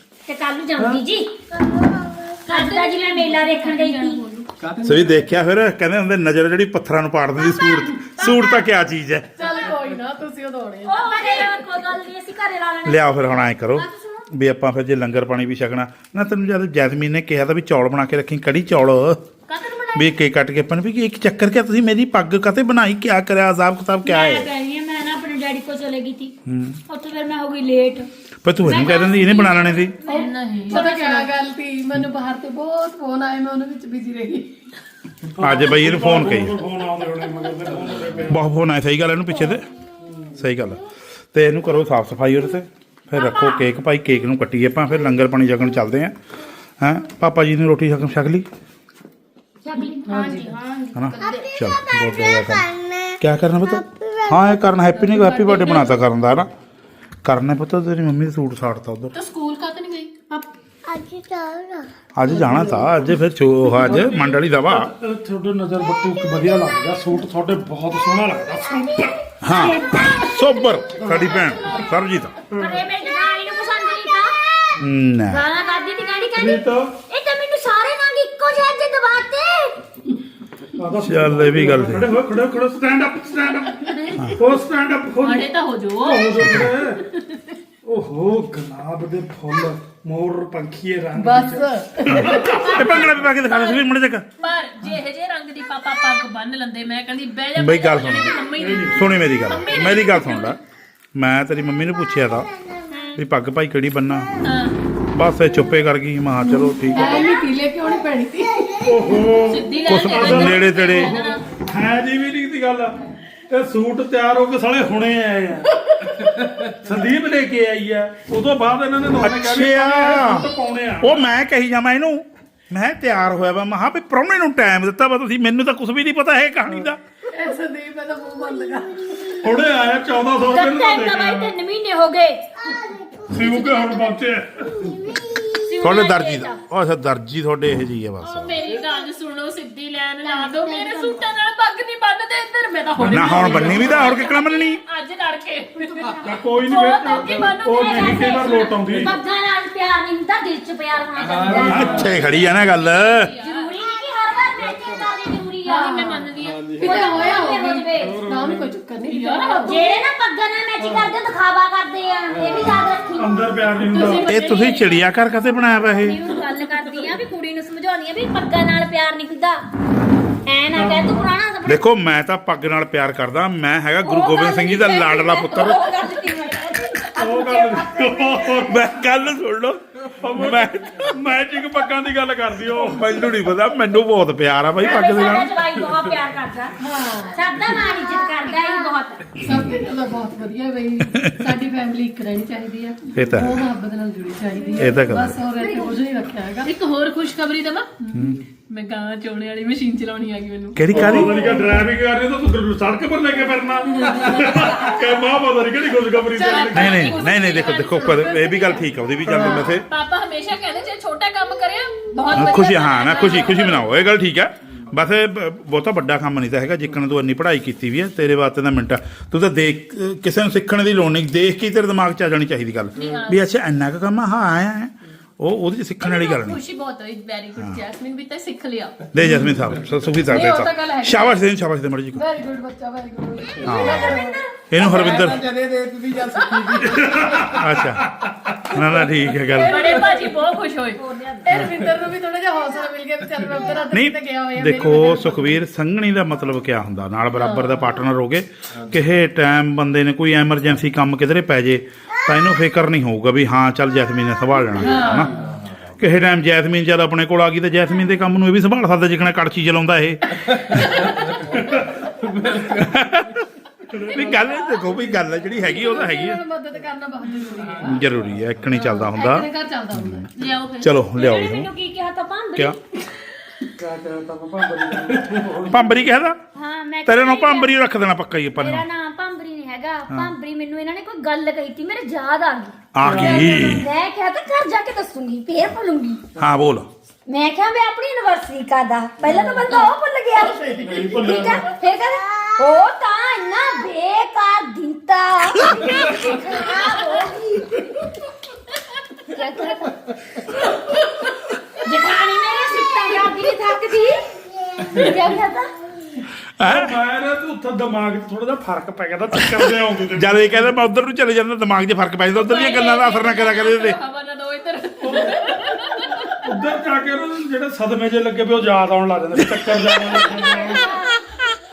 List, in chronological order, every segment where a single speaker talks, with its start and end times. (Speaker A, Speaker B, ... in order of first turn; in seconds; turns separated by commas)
Speaker A: 0.3-1.3, Speaker B: 1.6-2.4, Speaker A: 2.5-4.2, Speaker C: 2.5-4.5, Speaker D: 4.6-5.3, Speaker E: 4.8-9.4, Speaker A: 8.2-8.6, Speaker F: 9.4-11.4, Speaker A: 10.8-14.3, Speaker E: 12.8-19.2, Speaker A: 19.5-20.1, Speaker E: 19.9-24.5, Speaker A: 24.1-26.4, Speaker E: 26.5-26.8, Speaker A: 26.9-28.1, Speaker E: 28.4-29.9, Speaker A: 28.6-31.3, Speaker C: 30.1-30.9, Speaker F: 30.1-34.5, Speaker G: 35.3-38.4, Speaker E: 35.4-36.6, Speaker E: 38.2-39.7, Speaker E: 40.4-40.8, Speaker E: 41.3-46.2, Speaker A: 43.1-43.7, Speaker E: 46.8-48.5, Speaker A: 49.6-50.4, Speaker F: 50.1-50.5, Speaker B: 50.1-54.8, Speaker E: 50.9-52.6, Speaker C: 51.1-51.5, Speaker E: 53.2-56.5, Speaker C: 55.4-55.8, Speaker E: 57.2-59.1, Speaker C: 59.1-60.3, Speaker B: 60.9-61.9, Speaker E: 62.1-64.9, Speaker F: 62.3-62.9, Speaker G: 63.8-69.2, Speaker B: 66.0-66.8, Speaker B: 68.7-72.0, Speaker E: 69.4-72.4, Speaker A: 69.5-70.3, Speaker G: 72.5-72.8, Speaker A: 72.5-74.4, Speaker B: 72.9-74.7, Speaker E: 74.8-75.5, Speaker A: 75.3-79.8, Speaker G: 76.3-76.9, Speaker G: 80.8-85.5, Speaker E: 81.0-82.2, Speaker C: 85.2-86.3, Speaker G: 86.0-87.0, Speaker E: 86.4-86.7, Speaker C: 87.1-87.4, Speaker G: 87.9-92.8, Speaker F: 91.2-92.7, Speaker E: 92.1-94.3, Speaker C: 92.3-93.8, Speaker C: 94.4-100.6, Speaker E: 97.6-100.6, Speaker G: 98.5-99.1, Speaker E: 101.2-102.5, Speaker B: 101.8-102.8, Speaker E: 103.2-104.3, Speaker C: 104.4-104.8, Speaker E: 105.1-107.3, Speaker F: 106.9-108.8, Speaker B: 106.9-109.5, Speaker G: 108.8-121.3, Speaker C: 109.4-111.4, Speaker E: 109.9-111.2, Speaker E: 119.2-120.5, Speaker E: 121.0-127.0, Speaker F: 127.3-129.4, Speaker B: 128.2-129.7, Speaker G: 129.4-131.5, Speaker A: 130.5-132.4, Speaker B: 132.6-135.9, Speaker G: 133.3-134.9, Speaker C: 135.7-136.6, Speaker E: 135.8-138.6, Speaker C: 138.2-146.1, Speaker B: 138.7-139.0, Speaker A: 140.2-141.2, Speaker G: 143.0-143.9, Speaker E: 143.0-144.8, Speaker A: 145.8-147.1, Speaker D: 146.1-146.3, Speaker G: 146.2-149.1, Speaker C: 146.7-149.2, Speaker D: 147.3-147.6, Speaker A: 147.9-152.2, Speaker D: 151.2-152.2, Speaker C: 151.5-153.7, Speaker F: 151.5-152.0, Speaker E: 151.7-153.3, Speaker G: 151.7-152.0, Speaker A: 153.4-156.2, Speaker D: 154.5-155.2, Speaker F: 155.7-159.8, Speaker C: 155.7-157.3, Speaker D: 156.3-157.1, Speaker A: 156.8-158.2, Speaker D: 158.0-158.7, Speaker G: 158.3-158.6, Speaker C: 159.1-159.9, Speaker A: 159.6-163.6, Speaker G: 160.8-161.1, Speaker D: 162.3-163.1, Speaker G: 163.2-164.3, Speaker C: 163.8-165.1, Speaker F: 163.9-164.2, Speaker E: 164.2-166.2, Speaker A: 166.0-169.7, Speaker A: 170.4-171.8, Speaker G: 170.7-171.3, Speaker E: 171.7-175.9, Speaker A: 174.0-178.8, Speaker G: 177.1-178.9, Speaker E: 178.6-181.2, Speaker G: 180.2-183.2, Speaker E: 182.7-185.5, Speaker A: 184.8-189.4, Speaker F: 186.8-187.5, Speaker E: 189.4-189.8, Speaker F: 189.4-196.7, Speaker E: 191.1-191.5, Speaker E: 193.1-193.7, Speaker A: 194.6-194.9, Speaker E: 194.8-195.4, Speaker A: 195.6-196.0, Speaker C: 196.6-201.1, Speaker E: 198.1-198.4, Speaker E: 200.8-201.4, Speaker G: 200.9-207.1, Speaker F: 206.3-207.8, Speaker C: 206.3-208.7, Speaker E: 206.7-209.9, Speaker F: 208.4-208.8, Speaker G: 209.2-209.7, Speaker C: 209.3-213.9, Speaker E: 212.3-226.6, Speaker C: 223.0-223.4, Speaker C: 226.0-229.0, Speaker E: 227.6-227.8, Speaker E: 229.1-232.2, Speaker F: 230.3-231.4, Speaker F: 232.1-234.4, Speaker E: 233.6-235.4, Speaker A: 233.8-234.4, Speaker D: 234.8-237.5, Speaker G: 237.0-238.0, Speaker E: 237.2-238.1, Speaker E: 238.7-240.0, Speaker C: 239.5-241.0, Speaker A: 239.6-240.4, Speaker A: 240.9-241.6, Speaker F: 241.4-245.6, Speaker E: 243.9-255.3, Speaker F: 247.4-247.8, Speaker F: 254.8-255.3, Speaker D: 255.1-256.0, Speaker E: 256.0-261.2, Speaker D: 260.4-263.1, Speaker E: 262.6-263.5, Speaker E: 264.0-266.4, Speaker C: 264.1-264.8, Speaker F: 264.1-268.1, Speaker C: 267.2-267.7, Speaker D: 267.6-268.7, Speaker E: 267.8-271.7, Speaker C: 268.7-269.1, Speaker F: 268.7-270.3, Speaker C: 270.4-270.9, Speaker A: 271.1-272.8, Speaker G: 273.8-276.1, Speaker E: 275.6-276.4, Speaker A: 276.6-277.7, Speaker E: 277.1-278.9, Speaker A: 278.6-282.8, Speaker E: 282.9-283.9, Speaker G: 283.0-283.5, Speaker F: 283.1-283.8, Speaker A: 283.3-286.2, Speaker E: 286.4-286.9, Speaker A: 287.3-297.8, Speaker G: 290.7-291.7, Speaker B: 291.9-292.7, Speaker B: 296.0-296.7, Speaker C: 296.7-297.1, Speaker A: 299.3-299.9, Speaker A: 301.8-304.2, Speaker B: 303.1-303.3, Speaker B: 304.3-305.6, Speaker A: 304.9-305.7, Speaker E: 306.6-306.9, Speaker G: 306.6-310.6, Speaker E: 309.4-314.0, Speaker C: 312.3-316.4, Speaker G: 315.0-315.4, Speaker G: 316.4-321.0, Speaker E: 319.4-320.1, Speaker A: 320.4-321.1